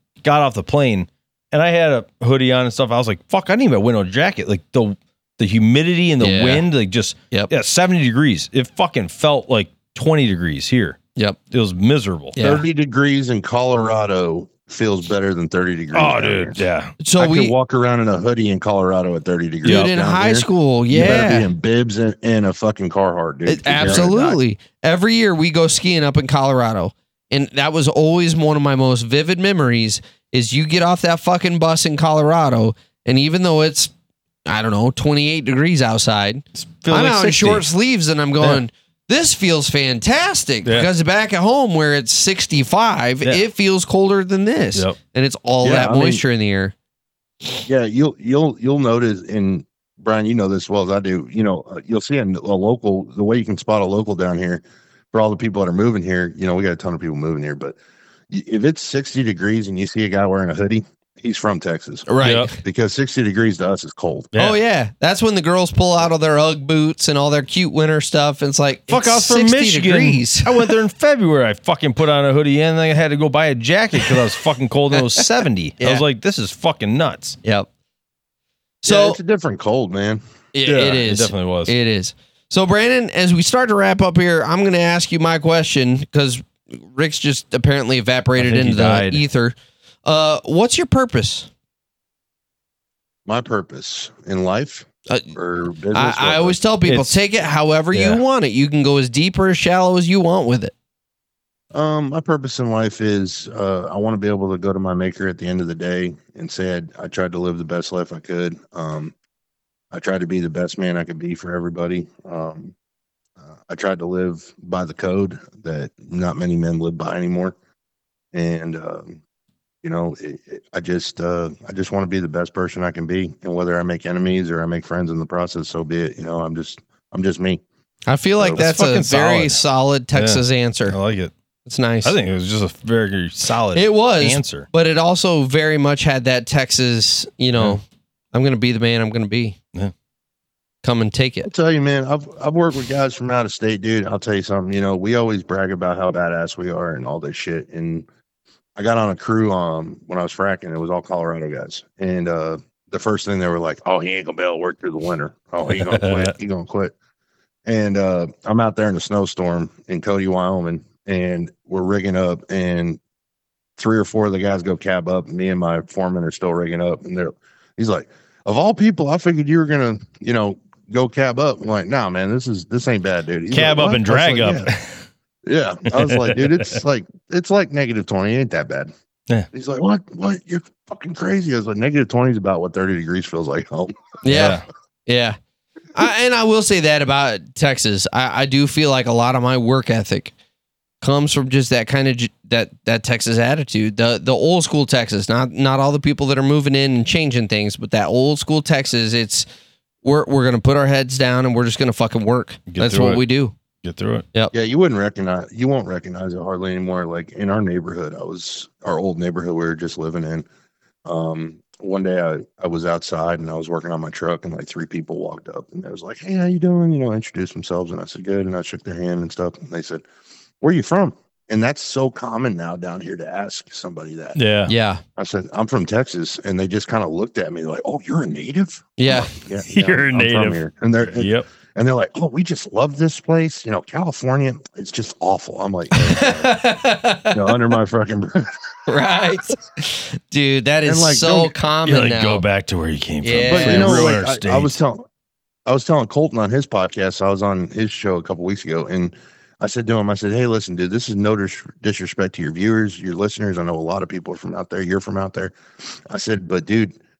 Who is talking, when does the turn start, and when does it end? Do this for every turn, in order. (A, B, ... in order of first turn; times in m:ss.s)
0:00.2-0:11.0 A
0:06.2-0:06.6 B
0:11.5-0:12.4 A
0:12.4-0:12.6 B
0:12.4-0:16.6 C
0:15.9-0:17.0 A
0:17.0-0:17.5 B
0:17.2-0:24.4 C
0:19.6-0:21.5 B
0:19.6-0:19.9 A
0:23.4-0:33.9 B
0:23.7-0:24.3 A
0:34.4-0:46.7 B
0:36.5-0:37.6 A
0:45.6-0:46.2 C
0:47.6-0:57.8 C
0:58.3-1:04.3 C
1:02.1-1:02.6 B
1:02.2-1:02.5 A
1:04.4-1:10.7 B
1:08.9-1:17.4 A
1:14.9-1:15.2 B
1:15.8-1:16.0 B
1:18.8-1:19.2 B
1:18.8-1:20.2 C
1:20.5-1:31.5 B
1:20.6-1:21.7 A
1:28.4-1:29.2 A
1:33.2-1:36.6 C
1:35.9-1:40.7 B
1:36.8-1:37.2 A
1:37.9-1:38.2 A
1:41.7-1:49.1 C
1:49.9-1:52.7 C
1:53.4-1:57.5 C
1:58.3-1:59.2 C
1:59.8-2:07.6 C
2:08.1-2:11.0 B
2:08.5-2:09.6 A
2:10.1-2:11.3 A
2:11.6-2:12.1 B
2:12.0-2:14.7 A
2:13.7-2:19.6 B
2:20.8-2:21.5 B
2:21.4-2:28.1 C
2:28.8-2:36.9 C
2:35.8-2:36.3 A
2:37.6-2:43.0 C
2:43.8-2:54.7 C
2:53.5-2:55.0 A
2:55.4-2:58.9 C
2:55.9-2:56.8 A
2:59.5-3:04.5 C
3:04.2-3:05.4 B
3:04.3-3:04.6 A
3:05.9-3:10.3 B
3:11.0-3:19.5 B
3:20.0-3:23.5 B
3:22.7-3:23.2 A
3:23.8-3:24.2 A
3:24.5-3:30.5 C
3:31.0-3:40.0 C
3:40.6-3:44.4 C
3:44.4-3:44.7 A
3:44.7-3:45.0 B
3:45.2-3:56.5 C
3:49.0-3:49.3 B
3:49.6-3:51.4 A
3:55.9-3:57.6 B
3:57.3-3:58.5 C
3:58.9-4:02.4 B
4:00.8-4:01.6 C
4:01.8-4:04.8 A
4:03.2-4:04.0 B
4:03.4-4:05.1 C
4:05.6-4:15.5 C
4:16.0-4:17.0 C